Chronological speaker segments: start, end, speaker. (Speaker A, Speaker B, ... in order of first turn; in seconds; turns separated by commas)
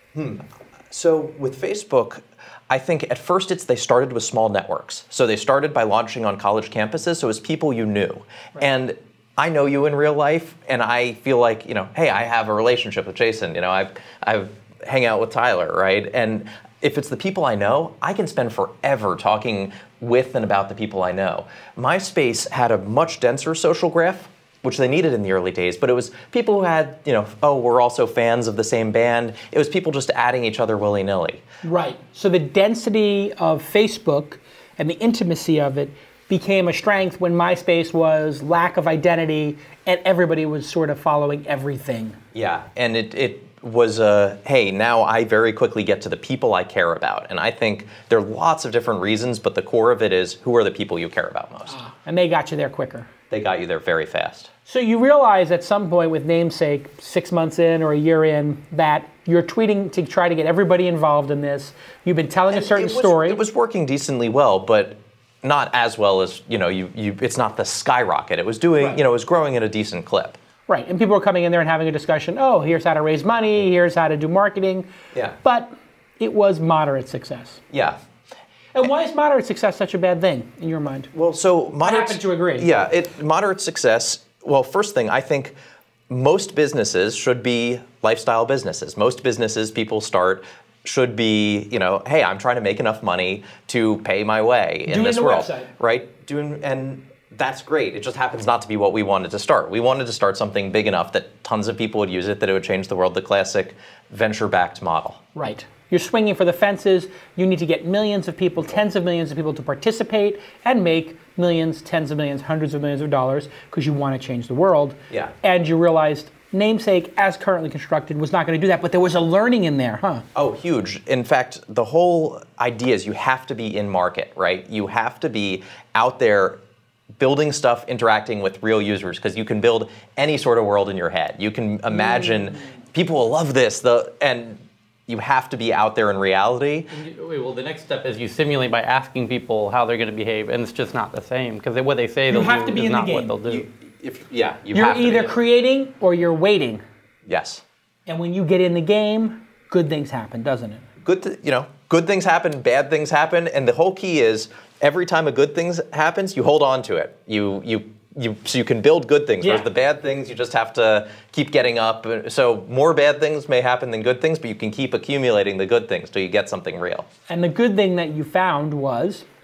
Speaker A: 0.1-31.4, Speaker B: 31.6-42.2, Speaker A: 42.3-51.8, Speaker B: 51.7-53.1, Speaker A: 53.3-54.5, Speaker B: 54.6-63.4, Speaker A: 62.5-70.4, Speaker B: 70.7-74.9, Speaker B: 75.4-77.6, Speaker A: 77.7-78.0, Speaker B: 78.8-81.1, Speaker A: 81.1-85.5, Speaker B: 81.8-82.7, Speaker A: 86.1-105.2, Speaker B: 94.9-95.7, Speaker B: 105.4-120.2, Speaker A: 120.3-126.6, Speaker A: 127.2-136.9, Speaker C: 136.9-143.6, Speaker B: 142.3-143.3, Speaker A: 143.4-145.3, Speaker B: 144.7-146.8, Speaker A: 147.2-147.6, Speaker B: 148.1-150.8, Speaker A: 151.0-167.1, Speaker B: 159.4-159.7, Speaker B: 167.3-169.2